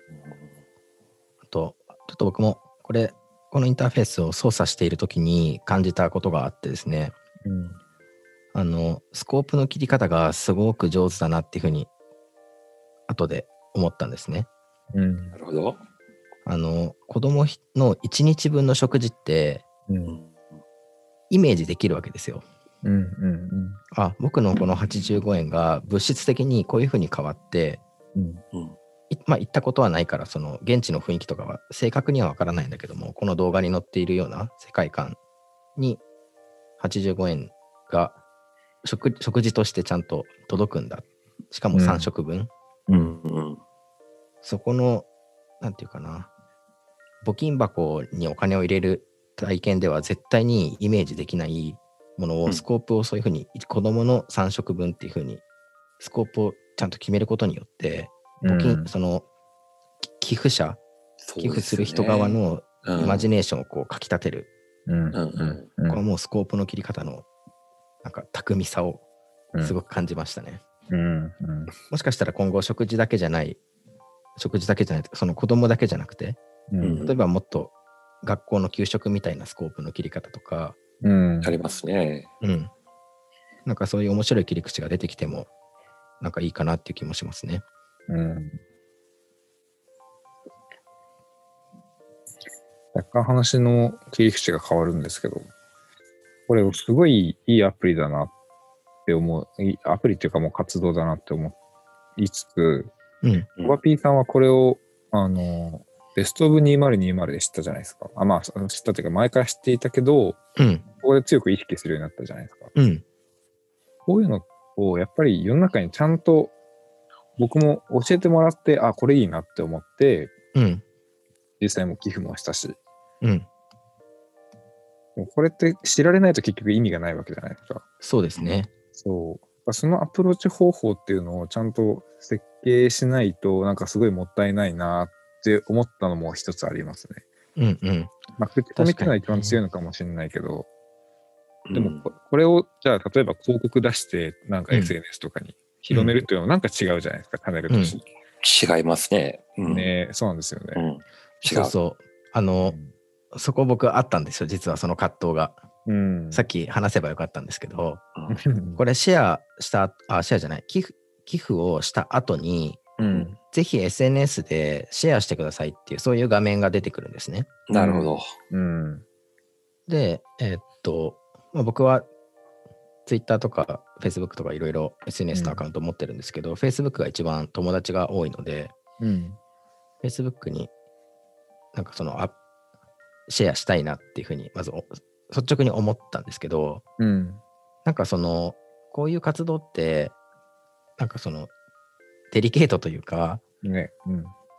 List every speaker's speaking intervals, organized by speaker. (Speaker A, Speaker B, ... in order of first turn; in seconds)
Speaker A: 0.1-0.5, 15.3-15.8, 20.1-20.4, 42.9-43.6, 61.2-63.3, 65.1-65.7, 76.8-77.2, 81.4-82.3, 141.7-142.1, 148.4-149.9, 150.8-151.7, 167.7-168.3
Speaker B: 1.5-7.2, 8.5-11.9, 13.1-14.5, 16.5-19.6, 21.3-22.4, 23.9-27.8, 29.1-35.2, 35.8-36.0, 36.8-38.2, 38.8-42.5, 44.4-45.1, 45.6-46.3, 47.2-55.4, 56.0-59.2, 60.0-60.8, 61.4-64.5, 65.9-67.3, 68.0-69.0, 69.6-70.6, 71.9-73.6, 74.4-76.4, 77.0-80.8, 82.4-82.7, 83.7-85.5, 86.2-87.6, 103.2-103.5, 110.6-110.8, 112.8-113.0, 120.5-120.8, 123.2-123.5, 128.0-128.7, 137.6-138.2, 138.8-139.6, 145.9-146.2, 147.7-148.0, 151.4-152.8, 153.3-155.6, 156.3-158.0, 158.8-167.5, 169.9-172.1, 173.1-178.7, 180.0-180.7, 181.7-182.3, 183.3-186.8, 187.8-190.2, 191.0-191.5, 192.3-193.4
Speaker C: 7.5-7.8, 14.9-15.3, 19.9-20.2, 22.8-23.8, 28.1-28.4, 41.7-42.1, 58.4-58.9, 64.9-66.0, 70.9-71.7, 76.7-77.1, 81.0-81.5, 88.1-88.6, 92.9-95.5, 96.5-98.3, 99.1-101.6, 102.2-102.9, 103.6-110.4, 111.0-112.7, 114.1-116.5, 117.4-120.3, 121.6-122.8, 125.2-127.8, 128.4-137.2, 138.4-140.7, 141.7-148.1, 149.7-150.8, 152.6-152.9, 155.9-156.5, 158.3-158.8, 163.0-163.4, 167.7-169.0, 175.3-175.6, 179.0-179.4, 187.0-187.4, 193.6-194.3